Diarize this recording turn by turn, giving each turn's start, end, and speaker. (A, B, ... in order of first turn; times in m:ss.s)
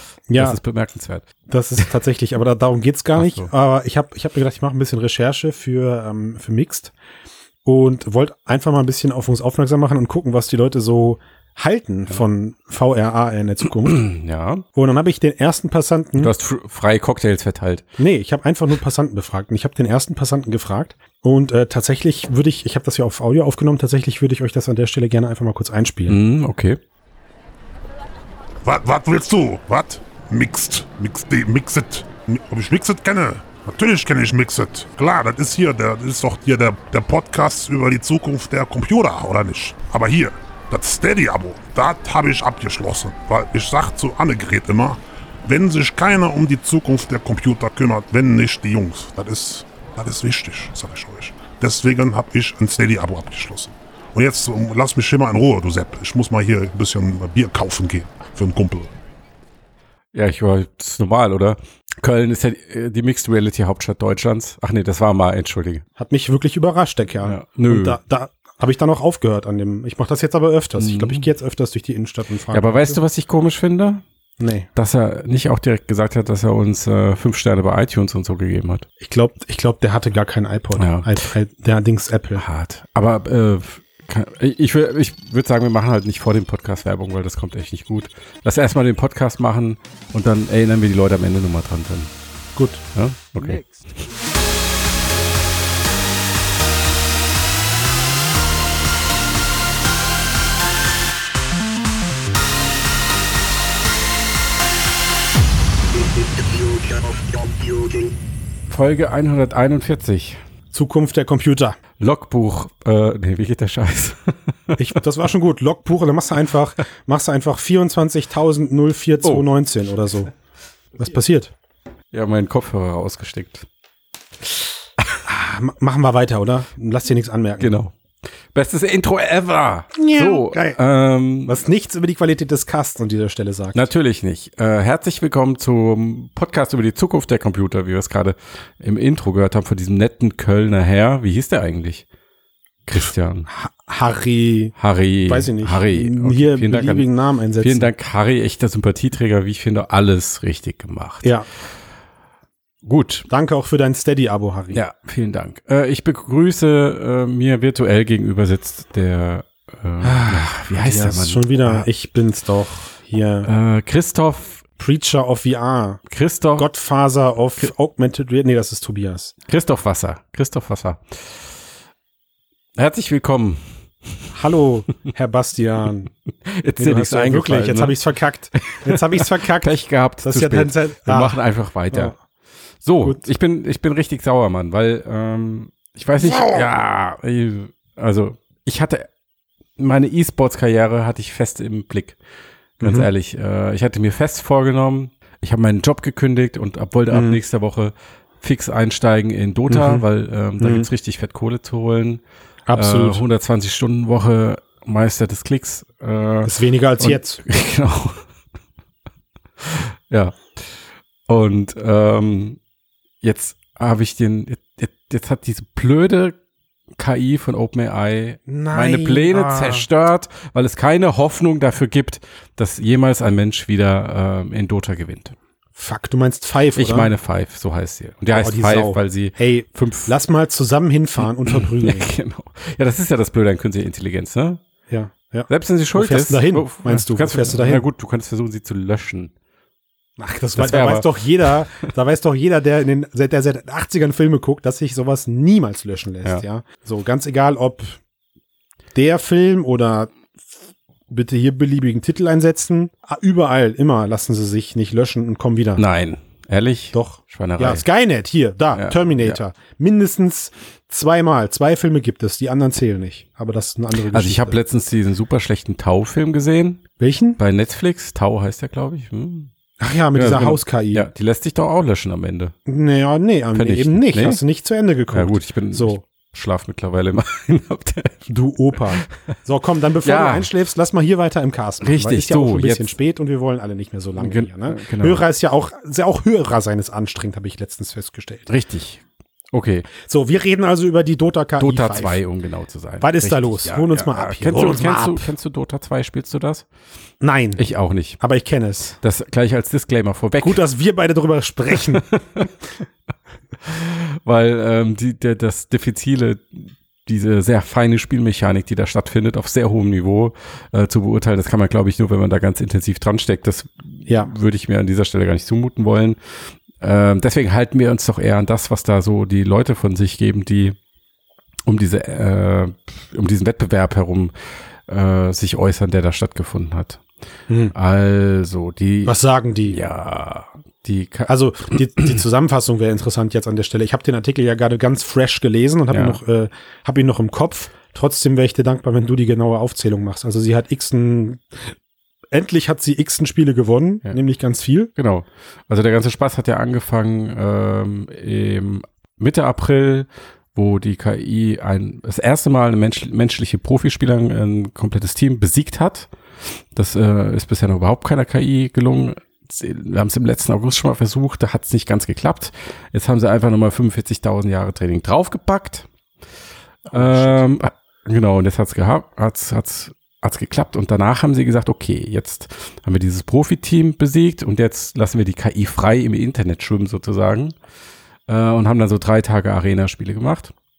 0:00.3-0:00.6 A
0:00.4-0:01.3 B
0:01.5-0:06.9 A
0:03.2-0:03.5 B
0:07.6-0:14.0 A
0:13.9-0:14.6 B
0:14.7-0:16.3 A
0:16.2-0:17.9 B
0:18.0-0:26.2 A
0:26.1-0:26.8 B
0:28.6-0:58.9 C
1:00.1-1:05.8 B
1:06.0-1:13.0 A
1:07.2-1:08.0 B
1:10.8-1:11.2 B
1:12.5-1:14.0 B
1:14.4-1:14.7 A
1:14.8-1:18.9 B
1:19.0-1:22.4 A
1:20.8-1:21.2 B
1:22.4-1:32.1 B
1:32.6-1:32.8 A
1:32.9-1:33.8 B
1:48.7-1:50.4 B
1:50.7-1:51.8 A
1:52.0-1:54.8 B
1:54.8-2:00.3 A
2:01.0-2:01.5 A
2:02.1-2:03.7 B
2:05.2-2:07.7 A
2:07.6-2:08.0 B
2:08.5-2:11.6 B
2:09.9-2:10.8 A
2:11.5-2:13.9 A
2:13.7-2:22.0 B
2:22.9-2:23.5 B
2:23.5-2:27.9 A
2:24.8-2:27.1 B
2:27.6-2:31.3 B
2:32.8-2:33.3 B
2:33.3-2:34.8 A
2:34.7-2:41.9 B
2:40.0-2:43.5 A
2:43.4-2:44.6 B
2:44.8-2:46.0 A
2:46.1-2:46.7 B
2:46.6-2:49.3 A
2:49.5-2:51.4 B
2:52.8-2:54.3 B
2:54.3-2:56.1 A
2:56.4-2:58.0 B
2:56.8-3:02.2 A
2:58.7-3:02.1 B
3:02.8-3:09.1 B
3:09.8-3:12.2 B
3:12.8-3:22.2 B
3:12.8-3:13.1 A
3:17.1-3:17.4 A
3:19.7-3:20.0 A
3:20.6-3:20.9 A
3:22.7-3:23.2 A
3:22.7-3:28.2 B
3:26.4-3:27.4 A
3:29.6-3:30.5 B
3:31.3-3:32.6 B
3:33.2-3:36.4 B
3:37.0-3:45.4 B
3:38.5-3:39.9 A
3:45.8-3:47.1 A
3:46.8-3:50.1 B
3:48.3-3:52.1 A
3:51.4-3:54.6 B
3:54.9-3:57.9 A
3:55.5-3:59.3 B
4:00.2-4:08.0 A
4:00.6-4:01.6 B
4:09.0-4:10.1 A
4:11.1-4:15.8 A
4:15.8-4:17.8 B
4:16.9-4:24.6 A
4:18.7-4:19.4 B
4:24.1-4:26.8 B
4:27.0-4:27.4 A
4:27.4-4:29.5 B
4:29.8-4:31.1 A
4:30.2-4:32.6 B
4:32.7-4:36.0 A
4:33.5-4:34.4 B
4:35.1-4:38.2 B
4:38.3-4:48.5 A
4:40.0-4:40.5 B
4:41.8-4:42.9 B
4:44.2-4:45.2 B
4:48.5-4:49.9 B
4:50.0-4:52.2 A
4:51.6-4:56.7 B
4:53.0-4:55.3 A
4:57.2-4:57.6 A
4:57.6-4:58.2 B
4:58.2-4:59.0 A
4:59.0-5:00.6 B
5:00.4-5:02.1 A
5:01.7-5:02.5 B
5:03.6-5:16.2 B
5:14.1-5:14.3 A
5:16.8-5:20.8 B
5:21.7-5:24.3 B
5:24.9-5:27.0 B
5:27.7-5:31.8 B
5:29.0-5:29.8 A
5:31.3-5:41.7 A
5:35.9-5:36.2 B
5:42.3-5:44.9 A
5:45.0-5:56.1 B
5:56.7-6:05.9 B
6:06.9-6:07.4 A
6:06.9-6:17.6 B
6:18.3-6:20.5 B